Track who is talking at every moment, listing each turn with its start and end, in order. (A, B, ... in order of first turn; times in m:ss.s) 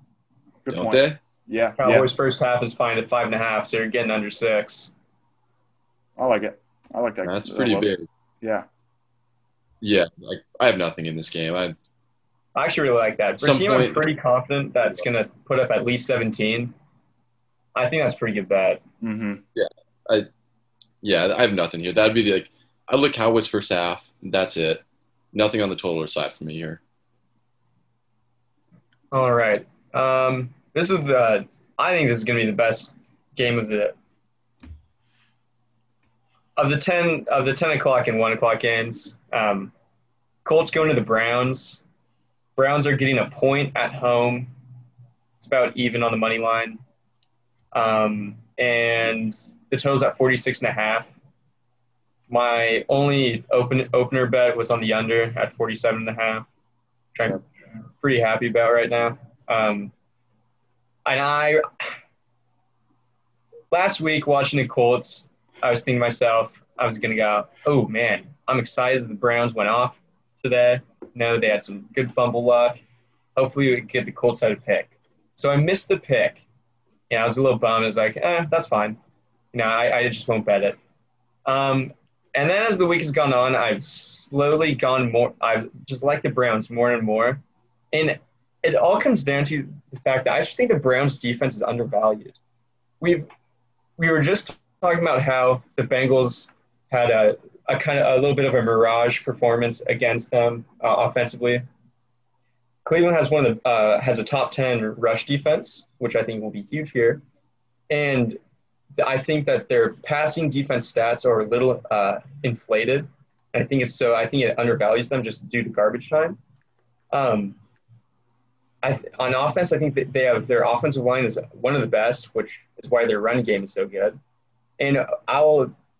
0:00.6-0:02.1 A
0:00.7-0:01.2 B
0:01.8-0:04.9 C
0:06.2-0:08.6 A
0:07.2-0:08.1 B
0:09.8-0:11.7 B
0:12.5-0:16.7 C
0:13.4-0:14.1 B
0:17.7-0:18.8 C
0:19.0-0:19.4 A
0:19.5-0:20.3 B
0:21.0-0:26.8 B
0:29.1-0:34.0 C
0:36.6-0:39.7 C
0:40.4-0:41.8 C
0:42.6-0:44.5 C
0:45.4-0:46.8 C
0:47.7-0:51.1 C
0:52.3-0:56.5 C
0:57.1-0:57.4 C
0:58.0-0:59.9 C
1:01.0-1:01.9 C
1:03.7-1:12.8 C
1:13.4-1:16.4 C
1:17.1-1:19.0 C
1:19.5-1:20.8 C
1:21.4-1:32.4 C
1:33.0-1:33.3 C
1:34.0-1:41.6 C
1:42.8-1:47.2 C
1:47.9-1:48.4 C
1:49.0-1:56.4 C
1:57.1-1:57.6 C
1:58.8-2:04.2 C
2:04.8-2:05.7 C